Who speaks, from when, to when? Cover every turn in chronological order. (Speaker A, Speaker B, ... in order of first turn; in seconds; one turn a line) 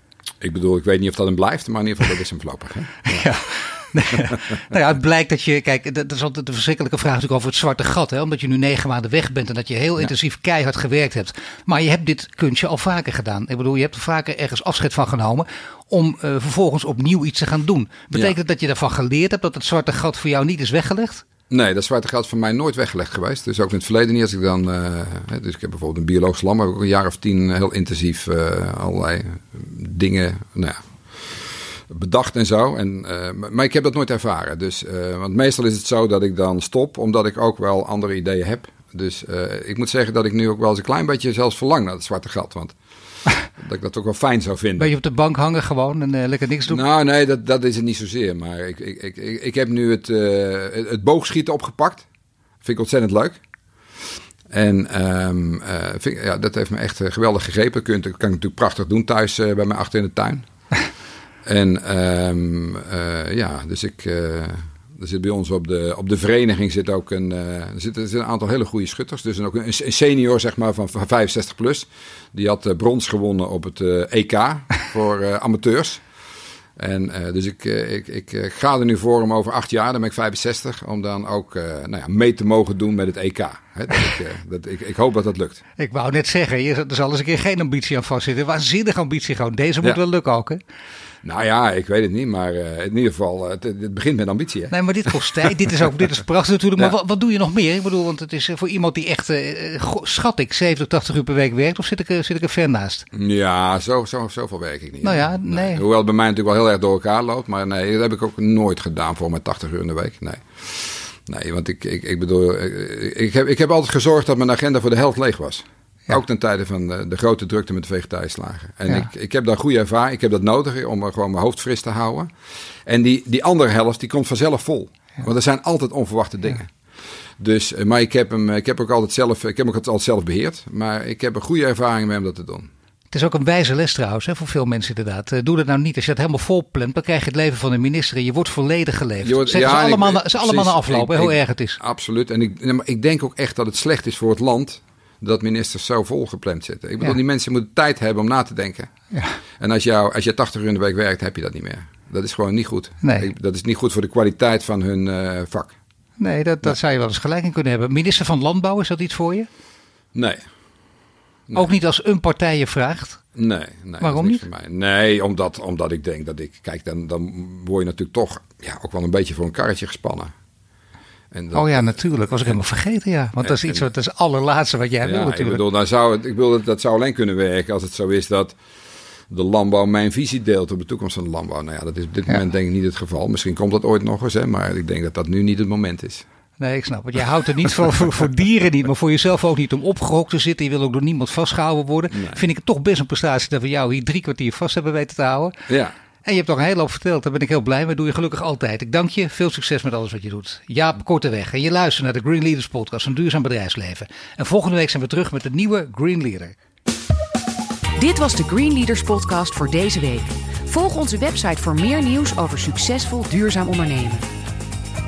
Speaker A: 0.4-3.3
Speaker B: 3.1-21.2
Speaker A: 4.1-4.4
Speaker A: 21.5-42.8
Speaker A: 43.5-44.9
Speaker B: 44.8-46.8
Speaker A: 46.7-52.1
Speaker A: 52.6-53.4
Speaker A: 54.5-60.5
Speaker A: 61.5-76.0
Speaker A: 76.8-85.6
Speaker B: 85.8-90.6
Speaker A: 91.2-95.1
Speaker B: 94.7-103.0
Speaker A: 103.1-122.3
Speaker B: 105.0-105.8
Speaker A: 122.8-126.7
Speaker A: 127.4-132.7
Speaker B: 133.1-141.8
Speaker A: 139.2-148.9
Speaker B: 149.1-149.4
Speaker A: 149.6-155.7
Speaker B: 153.0-153.3
Speaker B: 156.2-159.5
Speaker A: 160.1-160.4
Speaker A: 161.5-161.7
Speaker B: 161.5-163.2
Speaker A: 163.3-170.3
Speaker B: 164.0-164.4
Speaker A: 171.3-172.6
Speaker B: 171.5-175.6
Speaker A: 173.4-173.8
Speaker A: 175.0-178.6
Speaker A: 179.3-186.2
Speaker B: 186.6-195.6
Speaker A: 192.1-192.4
Speaker A: 195.7-195.9
Speaker B: 196.2-206.6
Speaker C: 208.0-214.2